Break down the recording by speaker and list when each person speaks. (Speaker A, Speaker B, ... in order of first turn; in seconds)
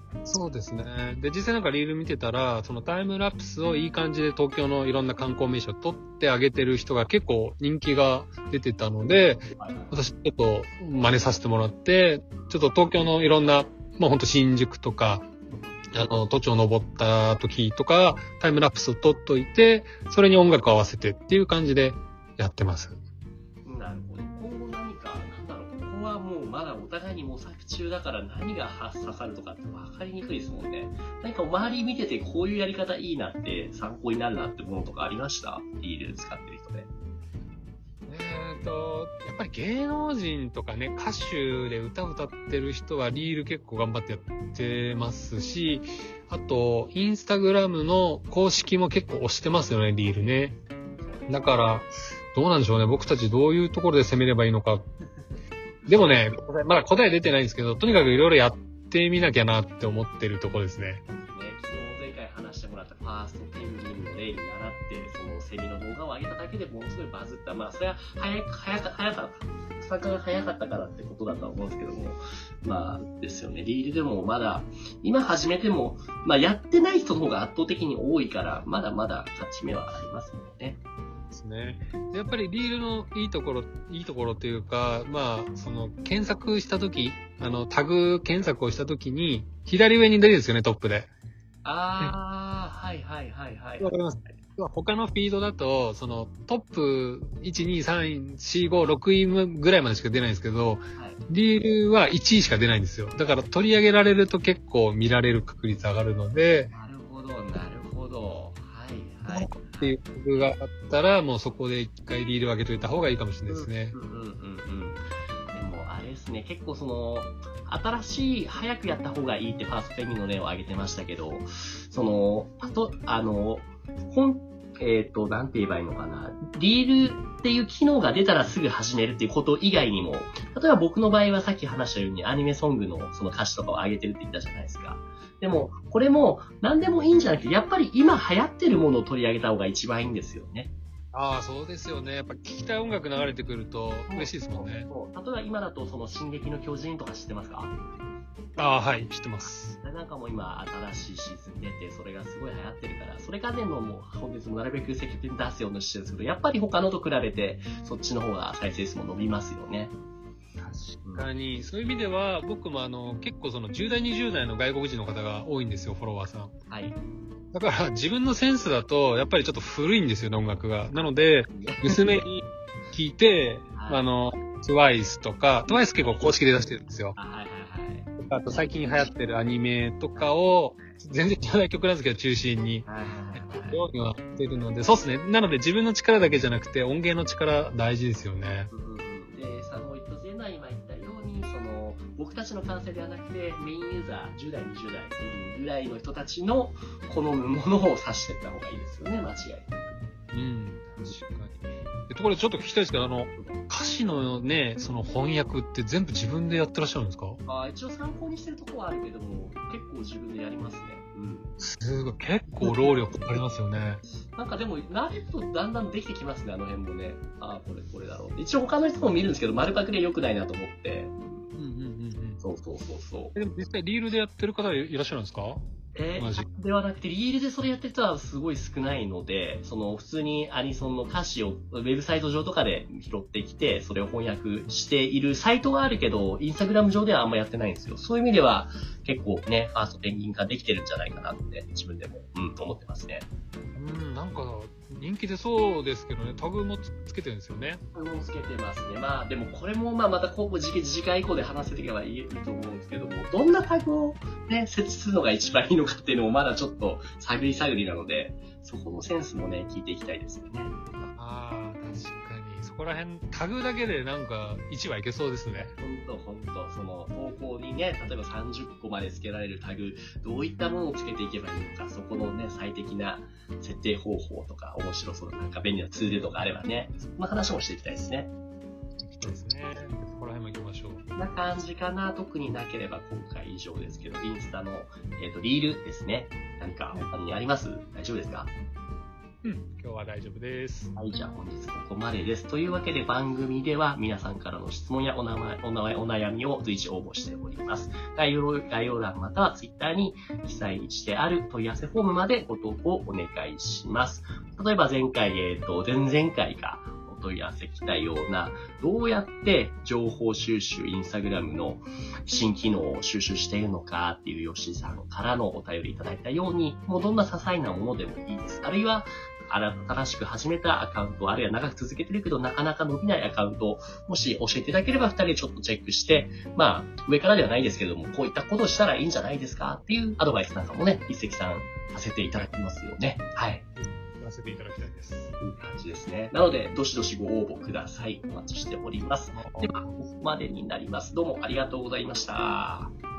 Speaker A: 0.3-15.2, 15.9-23.0, 38.1-50.6, 51.3-54.9, 55.9-61.0, 81.3-91.1, 93.8-106.7, 109.3-114.0, 141.1-144.9, 148.6-149.8, 160.6-166.5, 167.5-172.4, 172.9-177.2, 178.2-182.9, 183.4-188.7, 200.3-207.4, 211.6-214.0, 221.6-222.4, 223.3-225.6, 226.2-226.5, 243.8-247.8, 261.1-265.7, 279.0-281.1, 289.4-290.9, 334.2-335.4, 339.3-340.0
Speaker B: 9.6-10.0, 15.5-16.2, 23.6-36.9, 51.0-51.8, 55.9-56.2, 61.1-80.8, 91.6-94.3, 106.7-110.0, 113.5-140.7, 144.1-147.8, 149.4-159.9, 166.7-167.0, 171.5-172.3, 173.7-174.1, 176.0-176.4, 177.2-178.8, 180.2-180.9, 182.8-183.9, 188.7-199.7, 207.5-211.5, 212.6-212.9, 214.3-221.4, 222.4-223.3, 225.9-243.2, 247.9-261.1, 265.8-278.3, 281.2-288.5, 290.9-333.6, 335.4-342.9